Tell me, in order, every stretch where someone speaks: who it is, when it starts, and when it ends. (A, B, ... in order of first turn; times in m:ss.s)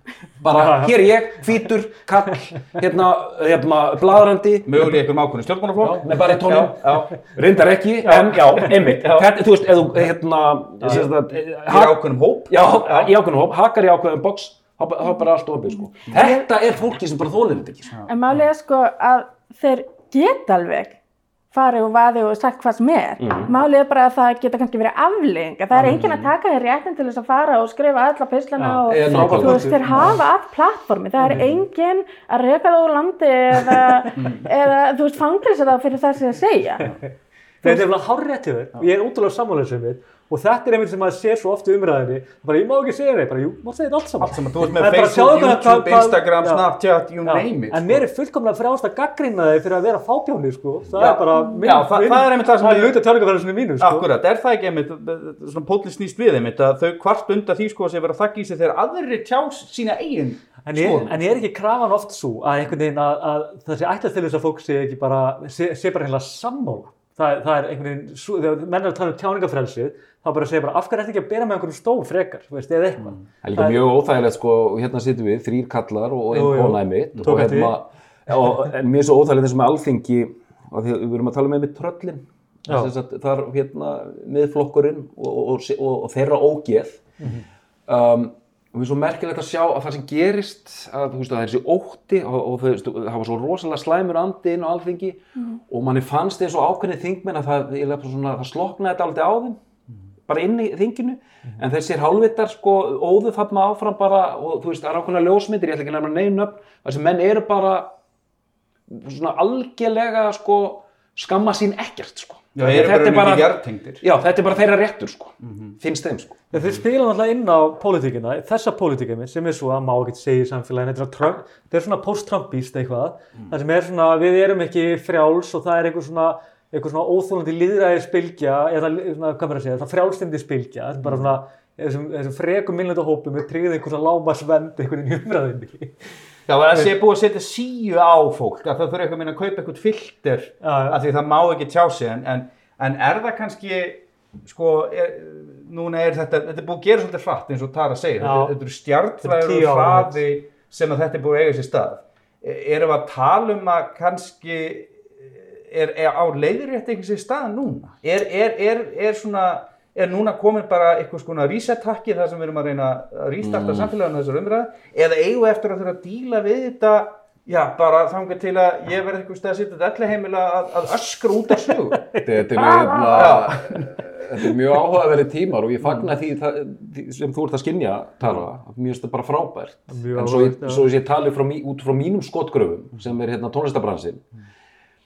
0:00.4-0:05.0 A
0:00.5-0:01.1 B
0:04.7-0:07.2 C
0:05.8-0:17.9 A
0:08.1-0:09.3 C
0:10.8-0:13.1 C
0:18.1-0:21.0 D
0:21.5-0:36.9 D
0:23.2-0:23.5 A
0:25.8-0:26.3 A
0:28.6-0:30.2 B
0:28.9-0:30.2 A
0:31.2-0:31.5 B
0:34.2-0:34.4 C
0:37.6-0:46.7 B
0:44.2-0:48.0 C
0:47.2-0:54.1 B
0:51.0-0:53.1 C
0:51.4-0:51.6 D
0:53.8-1:01.4 C
1:00.6-1:13.8 B
1:13.4-1:27.1 A
1:16.3-1:17.8 B
1:22.7-1:22.9 B
1:27.9-1:39.6 A
1:40.3-1:47.9 A
1:48.9-1:56.4 A
1:52.6-1:54.0 C
1:55.4-1:55.7 C
1:56.5-2:16.0 B
2:16.5-2:52.1 C
2:20.6-2:21.0 B
2:28.2-2:28.6 B
2:29.2-2:30.2 B
2:43.4-2:43.9 A
2:51.7-2:52.5 B
2:52.2-3:04.2 A
2:52.6-2:53.2 D
2:53.1-2:53.9 B
2:53.1-2:53.6 C
2:59.9-3:00.9 B